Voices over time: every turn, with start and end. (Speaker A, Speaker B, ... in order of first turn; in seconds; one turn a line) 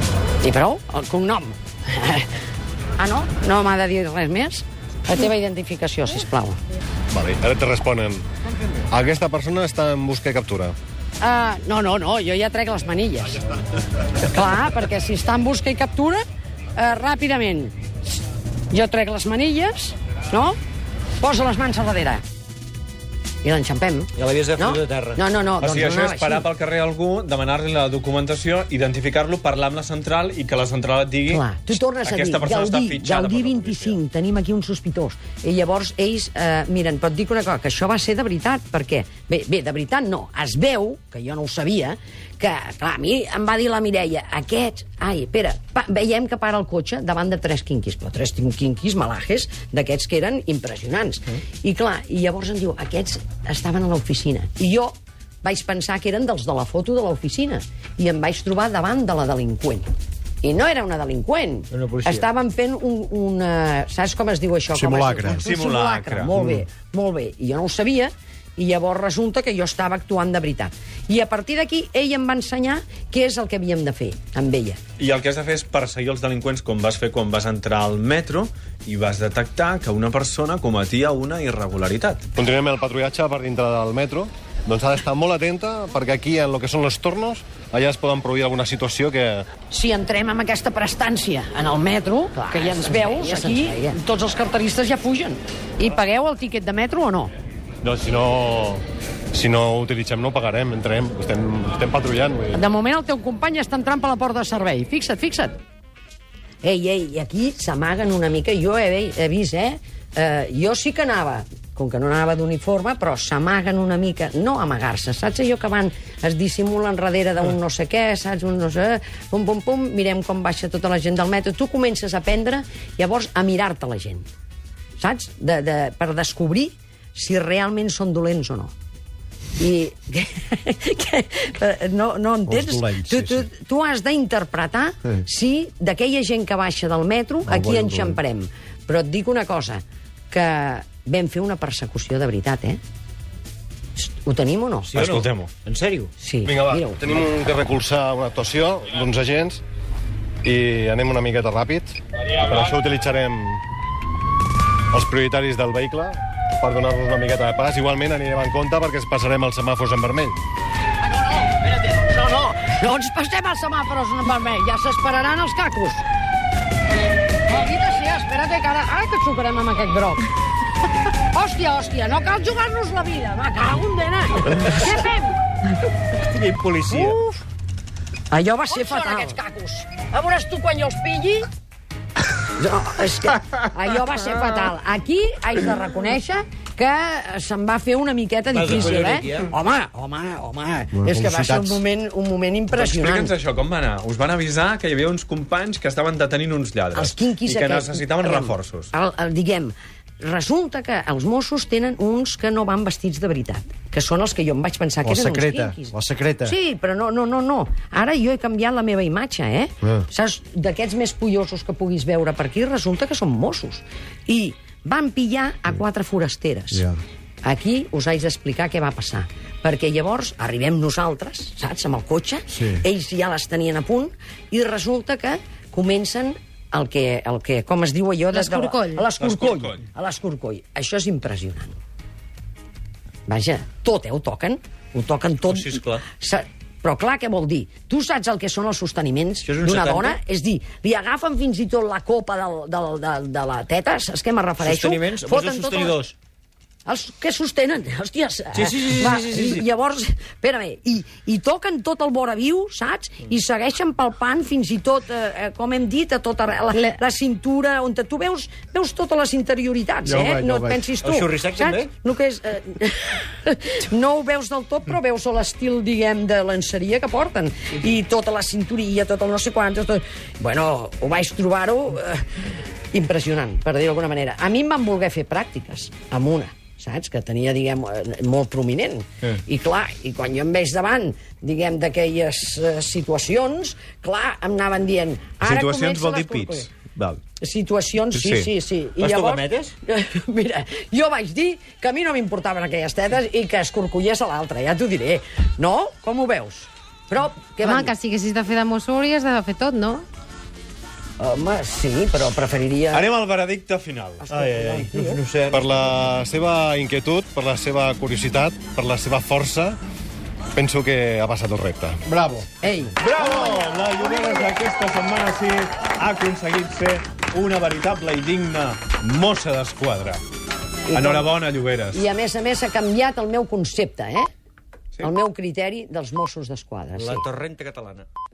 Speaker A: 0.4-2.3
Speaker A: 3.0-6.6
Speaker B: 7.1-8.2
Speaker B: 8.9-10.8
Speaker A: 11.2-13.4
Speaker A: 14.2-16.2
Speaker A: 16.8-17.8
Speaker A: 18.7-20.6
Speaker A: 21.2-22.2
Speaker A: 23.4-26.5
Speaker C: 24.1-25.2
Speaker D: 25.6-34.0
Speaker A: 31.3-59.9
Speaker A: 60.4-74.8
Speaker C: 61.7-62.2
Speaker E: 64.7-65.5
Speaker D: 65.4-66.3
Speaker E: 66.3-66.6
Speaker D: 75.0-82.2
Speaker B: 82.3-89.5
Speaker A: 89.7-97.3
Speaker F: 93.2-93.7
Speaker B: 97.8-102.6
Speaker A: 102.5-105.6
Speaker A: 106.6-124.2
Speaker A: 125.0-128.7
Speaker A: 129.6-142.8
Speaker E: 132.5-133.5
Speaker E: 137.5-138.2
Speaker A: 144.0-144.9
Speaker C: 144.9-146.1
Speaker D: 144.9-145.5
Speaker A: 146.2-147.2
Speaker B: 146.5-149.6
Speaker B: 150.4-153.6
Speaker B: 154.9-160.4
Speaker A: 161.0-166.0
Speaker A: 167.5-170.2
Speaker A: 171.3-175.4
Speaker C: 176.1-177.2
Speaker A: 176.9-177.4
Speaker A: 178.3-181.5
Speaker A: 182.6-193.3
Speaker C: 188.5-189.5
Speaker E: 190.9-191.8
Speaker D: 192.7-198.9
Speaker A: 196.9-216.9
Speaker E: 205.0-206.5
Speaker E: 216.7-217.0
Speaker A: 217.4-231.8
Speaker E: 222.5-222.8
Speaker F: 228.3-229.1
Speaker D: 229.2-229.8
Speaker A: 233.3-246.0
Speaker C: 235.5-236.0
Speaker C: 239.4-240.2
Speaker C: 244.6-246.1
Speaker A: 246.8-272.3
Speaker C: 248.5-249.6
Speaker E: 260.0-260.8
Speaker C: 261.0-261.9
Speaker A: 272.9-286.7
Speaker D: 285.4-287.2
Speaker A: 287.4-297.9
Speaker D: 288.1-288.5
Speaker C: 289.0-289.7
Speaker F: 297.6-300.0
Speaker A: 301.2-303.0
Speaker D: 302.9-304.2
Speaker A: 304.2-305.2
Speaker C: 304.3-305.6
Speaker B: 305.5-309.8
Speaker B: 310.6-312.0
Speaker E: 312.1-312.5
Speaker A: 312.6-312.9
Speaker D: 313.0-320.2
Speaker A: 320.9-321.3
Speaker D: 320.9-322.1
Speaker A: 321.9-324.3
Speaker A: 325.0-327.3
Speaker C: 327.0-328.1